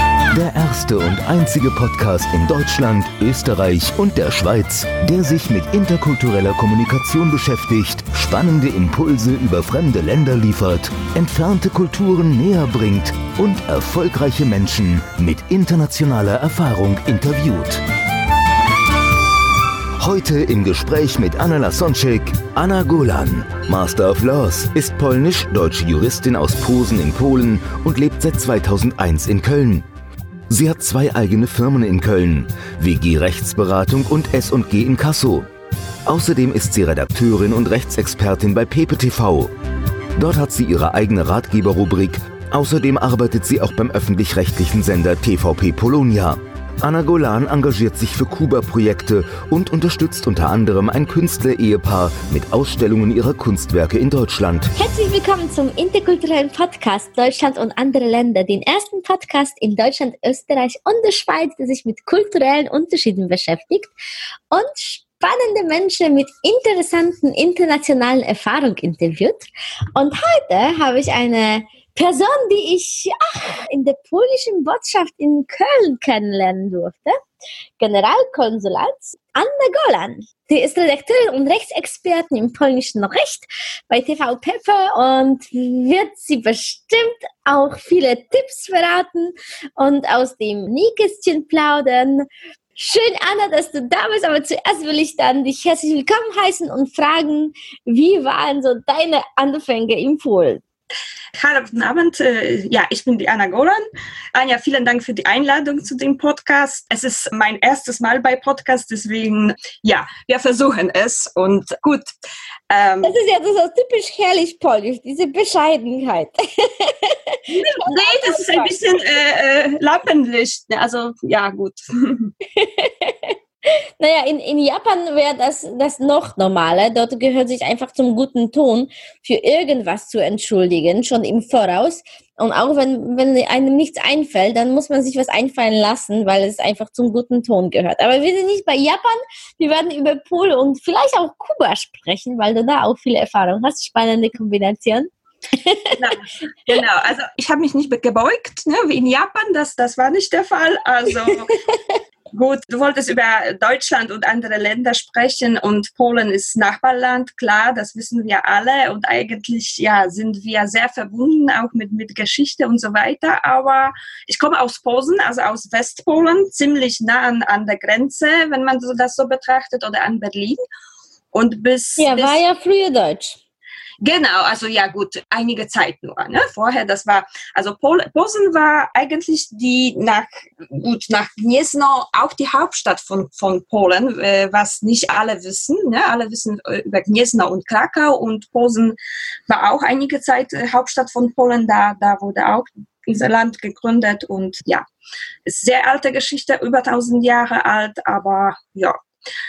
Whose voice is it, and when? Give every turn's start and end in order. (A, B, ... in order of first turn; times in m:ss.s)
0:00.3-0:17.8 A
0:20.0-0:29.9 A
0:30.5-0:35.5 A
0:36.1-0:39.5 A
0:40.2-0:54.7 A
0:54.8-1:03.9 B
1:04.5-1:17.2 B
1:17.8-1:40.6 B
1:41.4-1:52.1 C
1:52.7-1:53.2 C
1:53.0-1:58.7 B
1:57.5-2:02.3 C
2:02.6-2:03.4 B
2:04.0-2:26.0 B
2:26.0-2:31.6 C
2:32.3-2:50.6 C
2:51.3-2:52.4 C
2:52.0-2:53.4 B
2:54.0-3:14.8 C
3:15.5-3:19.0 C